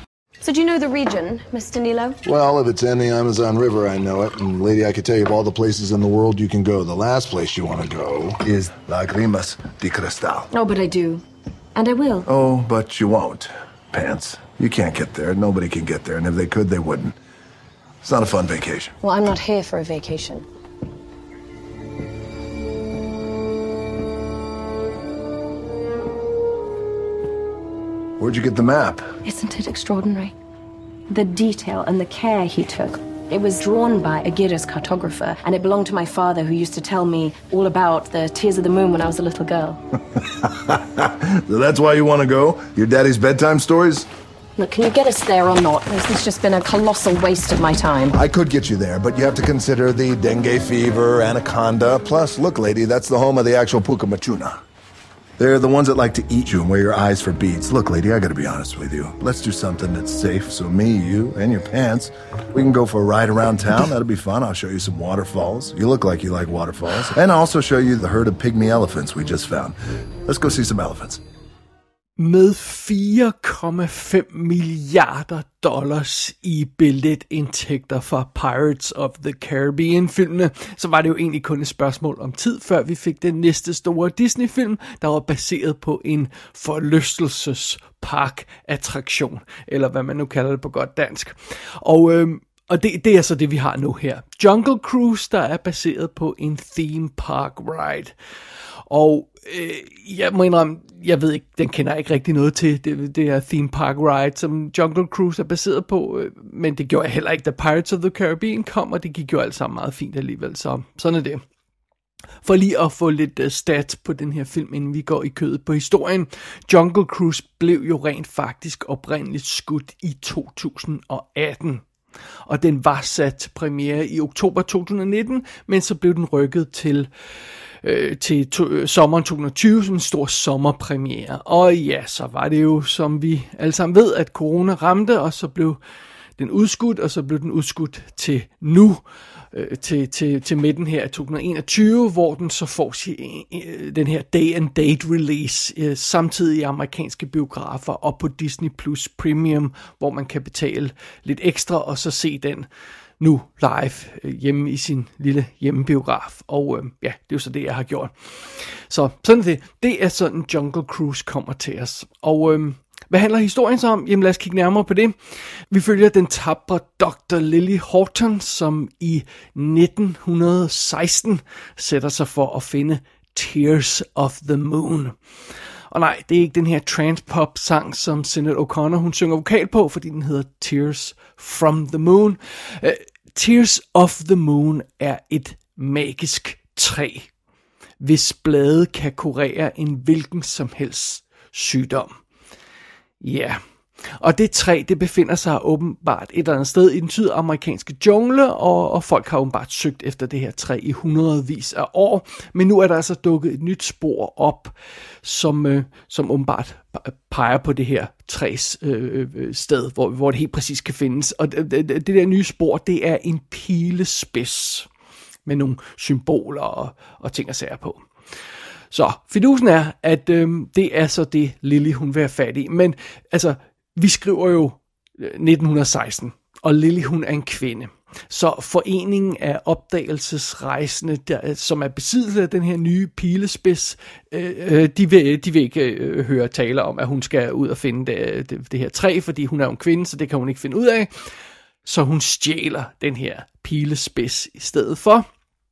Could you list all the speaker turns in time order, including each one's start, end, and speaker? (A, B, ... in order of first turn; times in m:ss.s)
0:00.4-0:02.2 A
0:02.2-0:10.5 B
0:10.5-0:11.2 A
0:11.8-0:12.3 A
0:12.3-0:17.2 B
0:18.0-0:18.9 B
0:19.0-0:20.4 A
0:28.2-0:29.1 B
0:29.2-0:30.3 A
0:31.1-0:39.8 A
0:40.2-0:44.1 B
0:44.6-0:48.2 A
0:48.1-0:54.6 B
0:55.4-1:11.2 B
1:12.2-1:38.1 C
1:38.9-1:51.4 C
1:52.4-2:01.8 C
2:02.5-2:07.1 C
2:07.8-2:15.8 C
2:16.4-2:32.7 C
2:33.2-2:55.2 C
2:55.9-3:07.3 C
3:08.0-3:12.2 C
3:13.2-3:34.9 C
3:35.5-3:38.0 C
3:38.9-4:01.3 C
4:01.8-4:05.3 C